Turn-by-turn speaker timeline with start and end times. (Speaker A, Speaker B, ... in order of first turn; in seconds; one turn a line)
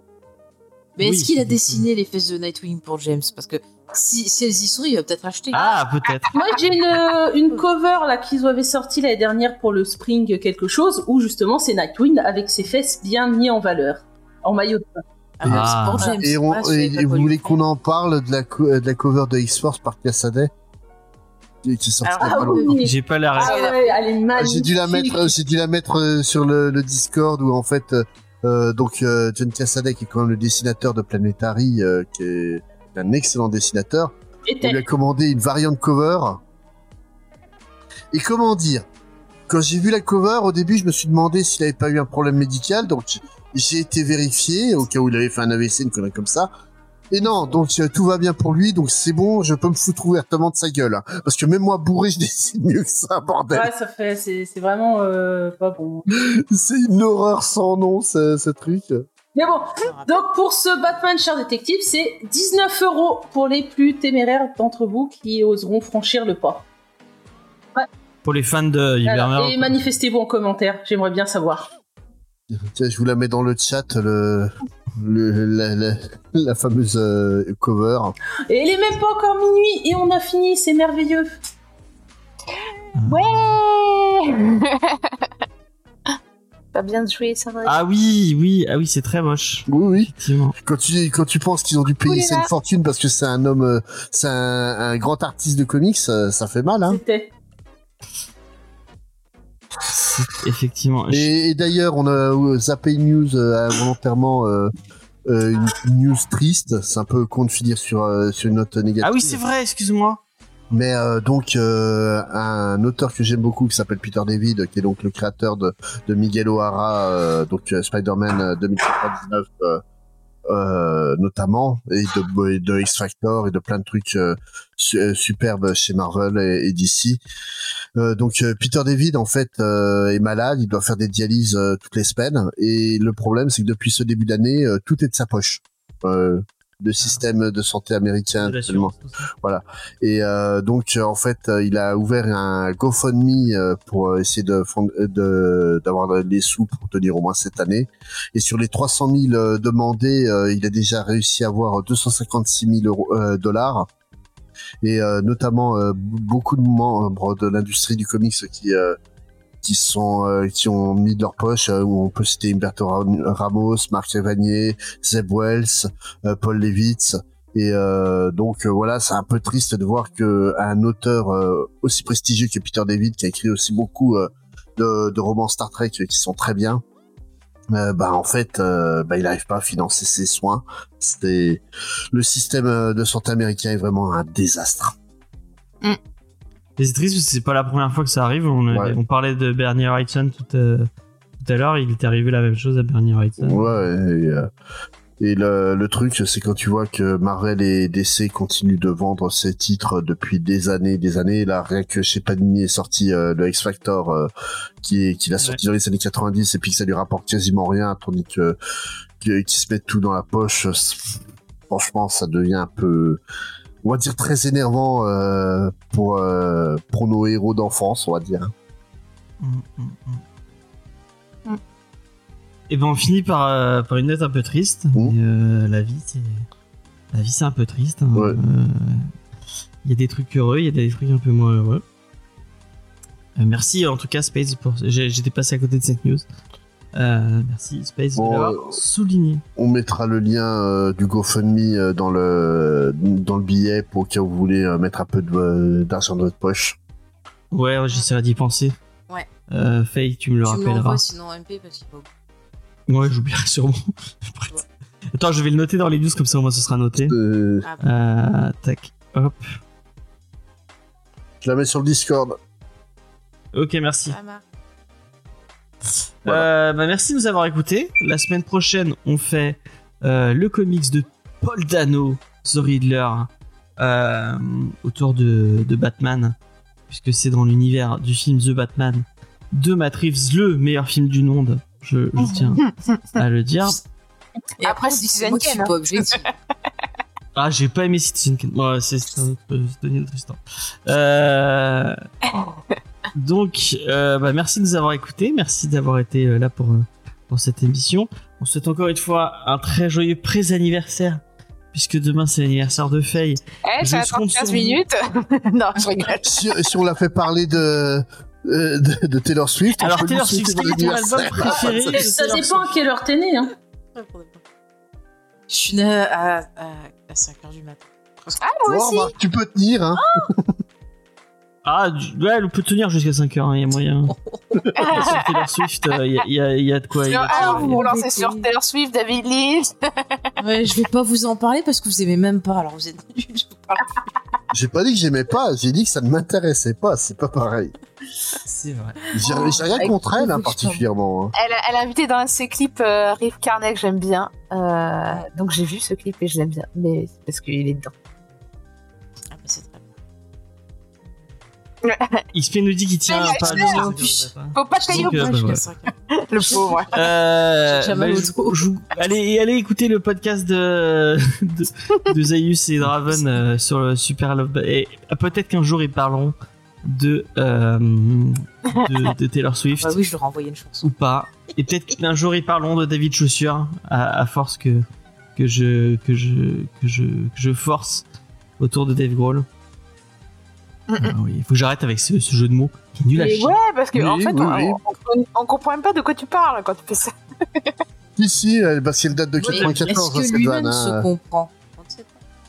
Speaker A: 1.0-5.7
Speaker B: 1.0-1.8
Speaker C: 5.5-6.4
Speaker B: 5.5-6.3
Speaker D: 6.3-15.0
Speaker A: 15.4-17.6
Speaker B: 15.4-16.2
Speaker E: 15.5-20.5
Speaker E: 21.6-22.8
Speaker A: 22.0-23.9
Speaker D: 22.2-25.4
Speaker B: 22.8-23.7
Speaker C: 23.4-23.7
Speaker E: 24.4-36.4
Speaker D: 34.5-34.9
Speaker E: 38.1-38.9
Speaker E: 39.5-46.5
Speaker E: 47.1-53.7
Speaker D: 53.5-56.1
Speaker E: 56.1-59.0
Speaker D: 59.3-66.7
Speaker A: 59.8-60.2
Speaker B: 68.2-69.8
Speaker D: 69.0-71.7
Speaker E: 72.5-78.2
Speaker D: 78.5-81.4
Speaker C: 82.6-85.3
Speaker B: 83.0-83.6
Speaker C: 86.7-87.8
Speaker B: 87.6-90.6
Speaker E: 89.7-97.0
Speaker C: 92.0-92.5
Speaker D: 96.9-97.3
Speaker B: 99.9-101.3
Speaker E: 101.1-104.7
Speaker E: 105.3-109.4
Speaker B: 109.0-110.2
Speaker E: 110.7-119.8
Speaker E: 120.5-127.2
Speaker E: 128.0-153.9
Speaker B: 138.4-139.3
Speaker E: 154.8-159.0
Speaker E: 159.6-176.8
Speaker E: 177.7-184.9
Speaker B: 186.8-190.9
Speaker E: 188.7-189.0
Speaker B: 191.4-193.7
Speaker E: 193.4-194.5
Speaker E: 195.2-204.3
Speaker E: 204.8-208.6
Speaker E: 209.2-211.2
Speaker E: 211.7-213.2
Speaker E: 213.8-218.5
Speaker B: 219.4-220.2
Speaker B: 222.7-226.5
Speaker B: 227.1-229.1
Speaker E: 228.1-228.4
Speaker B: 229.8-231.8
Speaker B: 233.4-236.3
Speaker B: 236.9-239.4
Speaker E: 238.2-238.8
Speaker E: 239.6-246.8
Speaker B: 247.5-248.8
Speaker B: 249.5-251.0
Speaker A: 250.4-252.1
Speaker B: 252.9-257.1
Speaker E: 257.1-257.7
Speaker B: 257.8-259.5
Speaker E: 261.4-262.4
Speaker B: 263.5-264.2
Speaker A: 264.1-264.4
Speaker B: 266.2-276.4
Speaker B: 276.9-283.8
Speaker C: 282.2-283.0
Speaker A: 284.6-286.3
Speaker C: 284.6-286.2
Speaker B: 287.4-292.0
Speaker C: 292.3-292.8
Speaker B: 293.1-301.2
Speaker B: 301.7-304.8
Speaker C: 303.6-306.4
Speaker E: 306.2-312.0
Speaker B: 309.8-312.7
Speaker D: 311.9-313.5
Speaker A: 313.9-314.4
Speaker A: 315.5-318.4
Speaker C: 318.4-319.1
Speaker E: 318.7-320.5
Speaker A: 320.0-320.3
Speaker B: 321.6-324.1
Speaker A: 324.1-324.8
Speaker B: 324.8-327.9
Speaker C: 324.8-325.4
Speaker C: 327.1-330.3
Speaker A: 327.3-328.5
Speaker A: 330.4-334.0
Speaker E: 334.5-337.8
Speaker B: 338.4-339.1
Speaker A: 339.1-340.8
Speaker E: 339.1-341.3
Speaker C: 339.4-339.8
Speaker C: 341.4-347.9
Speaker A: 349.3-349.9
Speaker C: 351.8-352.2
Speaker B: 352.3-355.6
Speaker C: 353.1-353.9
Speaker A: 353.3-358.6
Speaker C: 354.6-355.3
Speaker C: 356.1-357.0
Speaker B: 356.9-370.0
Speaker A: 363.1-363.4
Speaker A: 369.8-370.9
Speaker B: 370.8-374.8
Speaker B: 375.4-378.1
Speaker B: 378.6-379.5
Speaker C: 380.9-381.1
Speaker B: 381.0-383.6
Speaker C: 383.1-387.8
Speaker E: 383.9-384.8
Speaker E: 388.2-391.1
Speaker B: 389.4-390.0
Speaker A: 389.5-392.2